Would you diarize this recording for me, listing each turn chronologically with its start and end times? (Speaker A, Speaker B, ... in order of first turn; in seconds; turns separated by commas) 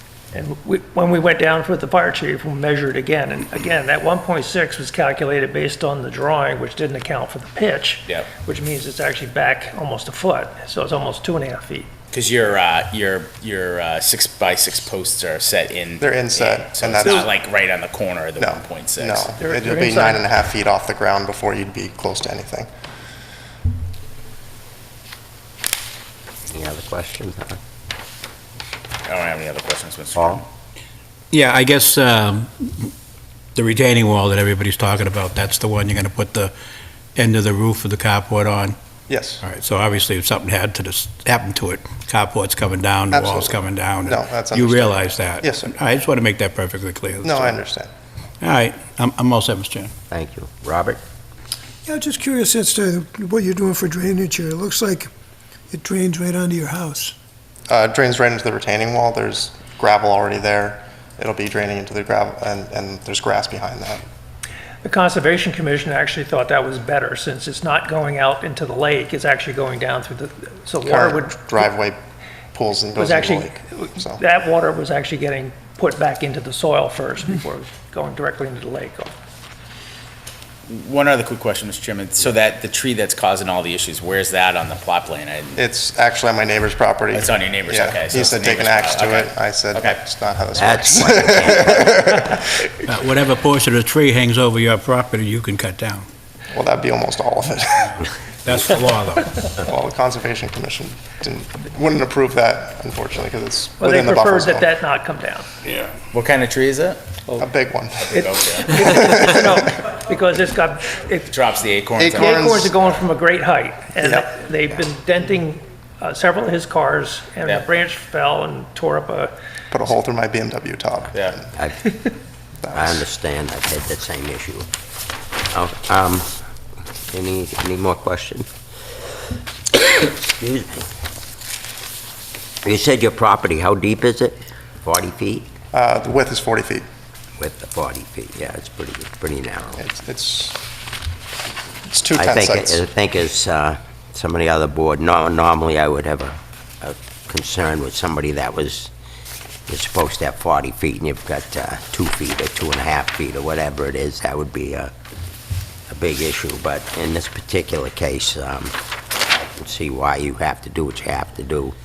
Speaker A: 0.3-11.9, Speaker B: 12.1-19.3, Speaker C: 16.0-17.3, Speaker C: 18.4-22.7, Speaker A: 19.4-20.2, Speaker D: 26.5-27.6, Speaker B: 29.0-30.4, Speaker E: 31.3-32.9, Speaker E: 33.5-36.5, Speaker E: 37.1-38.8, Speaker C: 39.1-39.4, Speaker E: 39.4-47.5, Speaker C: 43.1-45.7, Speaker C: 47.2-47.9, Speaker E: 48.4-49.9, Speaker D: 50.1-51.0, Speaker F: 51.9-55.1, Speaker F: 55.7-57.1, Speaker C: 57.7-64.0, Speaker A: 64.8-71.7, Speaker C: 70.8-72.0, Speaker C: 72.5-74.2, Speaker A: 72.9-79.2, Speaker B: 80.7-85.6, Speaker C: 85.6-92.7, Speaker B: 87.1-90.0, Speaker D: 90.5-92.2, Speaker E: 92.8-96.1, Speaker C: 96.5-98.0, Speaker E: 98.4-99.3, Speaker C: 99.5-104.7, Speaker A: 103.8-105.5, Speaker B: 106.1-107.0, Speaker C: 107.4-109.4, Speaker B: 108.0-109.2, Speaker A: 108.1-111.3, Speaker B: 111.2-112.5, Speaker C: 112.0-112.7, Speaker A: 112.1-119.3, Speaker C: 114.0-114.3, Speaker C: 119.7-121.5, Speaker B: 121.1-121.4, Speaker D: 121.5-121.9, Speaker C: 122.6-123.0, Speaker D: 122.7-124.7, Speaker D: 125.5-126.3, Speaker D: 127.1-128.5, Speaker D: 129.7-130.9, Speaker D: 132.6-135.5, Speaker C: 135.7-136.8, Speaker D: 137.4-139.8, Speaker C: 139.8-140.6, Speaker C: 141.9-142.8, Speaker D: 142.1-148.9, Speaker D: 149.7-154.9, Speaker D: 155.9-158.7, Speaker D: 159.3-161.7